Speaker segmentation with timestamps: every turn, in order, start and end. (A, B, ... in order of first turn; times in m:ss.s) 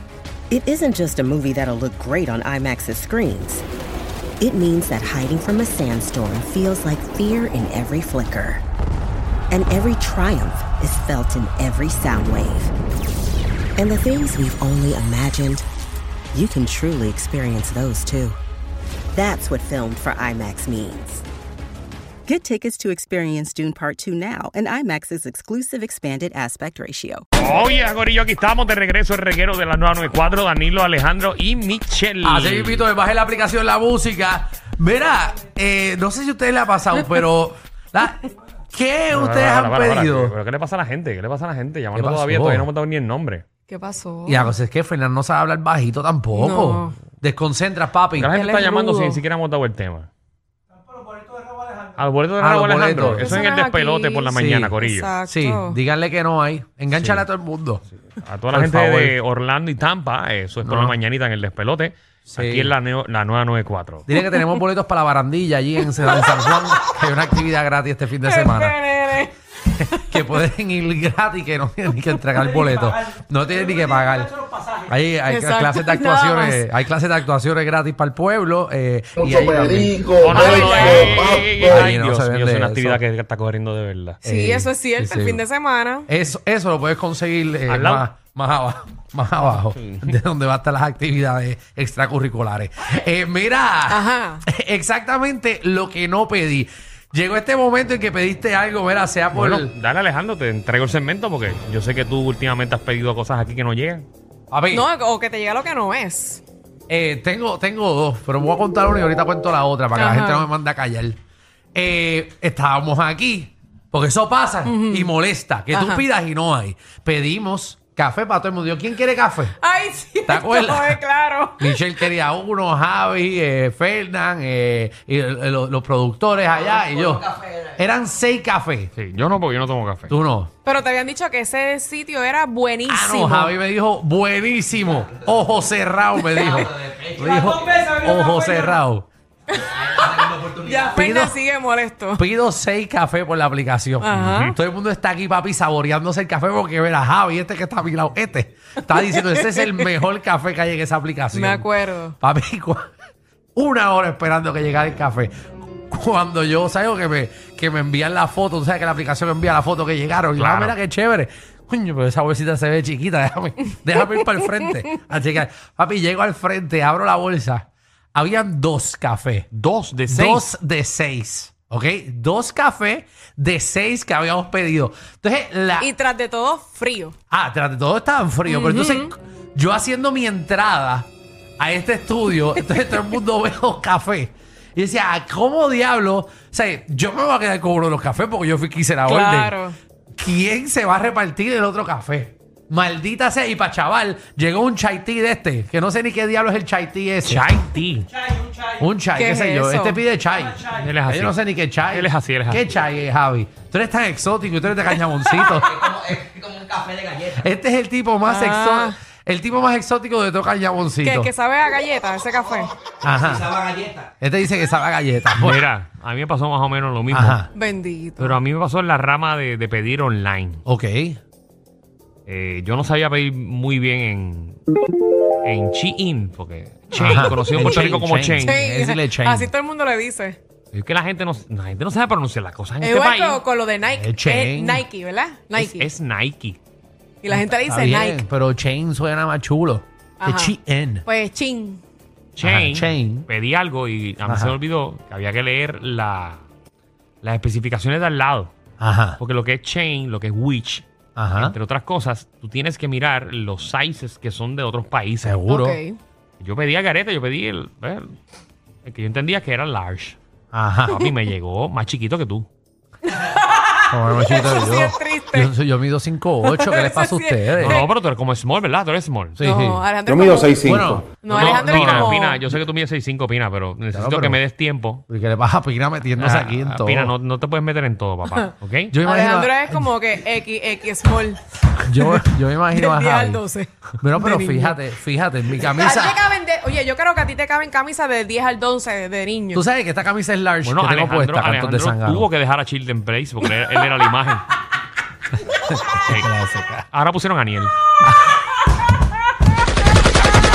0:00.5-0:03.6 A
0:04.4-0:08.6 A
0:09.5-0:12.7 A
0:13.8-0:15.7 A
0:16.3-0:18.4 A
0:19.1-0:21.2 A
0:22.3-0:27.2 A
0:27.4-0:32.9 B
0:32.2-0:40.3 C
0:39.1-0:43.4 B
0:41.9-0:42.7 C
0:43.7-0:44.5 D
0:44.3-0:48.3 C
0:46.3-0:47.0 D
0:48.2-0:50.1 B
0:48.3-0:49.2 D
0:52.0-0:55.1 B
0:52.4-0:53.4 C
0:53.1-0:55.8 D
0:54.3-0:57.9 C
0:56.9-0:57.3 B
0:58.1-1:04.1 B
0:58.5-0:59.2 C
1:00.6-1:01.0 C
1:02.3-1:02.7 C
1:04.1-1:08.8 C
1:06.0-1:06.6 D
1:08.2-1:10.2 D
1:10.0-1:20.1 C
1:15.3-1:16.6 D
1:19.8-1:21.5 E
1:20.2-1:24.2 B
1:20.3-1:21.2 D
1:21.6-1:23.0 C
1:24.2-1:25.4 C
1:24.2-1:26.1 D
1:26.1-1:39.7 C
1:27.7-1:28.1 B
1:29.6-1:30.1 B
1:33.9-1:34.4 D
1:39.3-1:44.1 B
1:44.5-1:44.9 C
1:44.7-1:46.4 D
1:46.9-1:51.2 C
1:50.0-1:50.5 D
1:51.8-1:59.6 C
1:54.6-1:55.1 D
1:55.7-1:56.0 D
1:59.6-2:01.8 D
2:00.3-2:01.0 C
2:01.6-2:08.9 C
2:09.0-2:10.2 B
2:10.1-2:10.5 C
2:10.6-2:13.6 D
2:12.9-2:19.1 C
2:16.3-2:16.6 D
2:19.5-2:22.3 D
2:20.8-2:21.4 C
2:22.2-2:31.7 C
2:24.0-2:24.6 D
2:29.0-2:29.9 D
2:31.3-2:32.2 D
2:32.2-2:32.9 C
2:33.6-2:35.3 C
2:35.9-2:49.5 C
2:40.4-2:40.8 B
2:49.5-2:50.5 B
2:50.1-2:55.9 C
2:55.8-2:57.2 D
2:57.3-3:01.1 C
2:58.5-2:59.1 D
3:01.6-3:09.6 C
3:09.0-3:09.8 D
3:10.2-3:17.5 C
3:17.2-3:18.1 B
3:18.8-3:26.1 C
3:19.2-3:20.0 D
3:20.8-3:21.4 B
3:21.9-3:22.7 B
3:26.4-3:27.2 E
3:27.3-3:31.3 C
3:28.2-3:29.0 D
3:31.0-3:32.7 D
3:33.0-3:33.6 C
3:34.2-3:35.6 C
3:35.4-3:37.5 B
3:37.1-3:37.5 C
3:37.5-3:38.4 D
3:38.2-3:40.6 B
3:40.7-3:41.2 C
3:42.3-3:44.6 B
3:45.4-3:48.6 B
3:47.0-3:49.5 C
3:48.4-3:50.4 D
3:50.7-3:53.4 B
3:52.8-3:55.9 D
3:53.9-3:54.8 C
3:55.5-3:56.6 B
3:57.2-3:58.2 D
3:57.3-4:01.0 C
4:00.2-4:00.5 D
4:01.0-4:01.8 D
4:02.4-4:06.4 B
4:02.4-4:03.3 C
4:04.2-4:04.6 C
4:07.2-4:08.5 B
4:08.8-4:09.2 C
4:09.2-4:15.4 B
4:11.2-4:11.6 C
4:15.2-4:15.8 C
4:15.5-4:16.0 D
4:16.4-4:18.1 B
4:18.8-4:20.2 B
4:20.5-4:21.1 C
4:20.9-4:22.5 B
4:23.1-4:25.5 D
4:23.9-4:27.8 C
4:26.4-4:27.9 D
4:27.6-4:29.4 B
4:29.4-4:29.9 C
4:29.4-4:32.5 D
4:30.1-4:31.0 E
4:30.6-4:32.2 C
4:31.2-4:35.0 B
4:33.9-4:34.4 C
4:35.1-4:37.1 C
4:36.2-4:38.9 B
4:38.9-4:39.9 C
4:39.0-4:44.8 D
4:41.8-4:43.4 C
4:44.0-4:46.2 C
4:45.6-4:49.6 D
4:49.5-4:52.3 C
4:50.6-4:54.5 B
4:55.6-4:56.9 C
4:56.0-4:56.3 B
4:56.9-4:57.8 B
4:58.0-4:58.4 C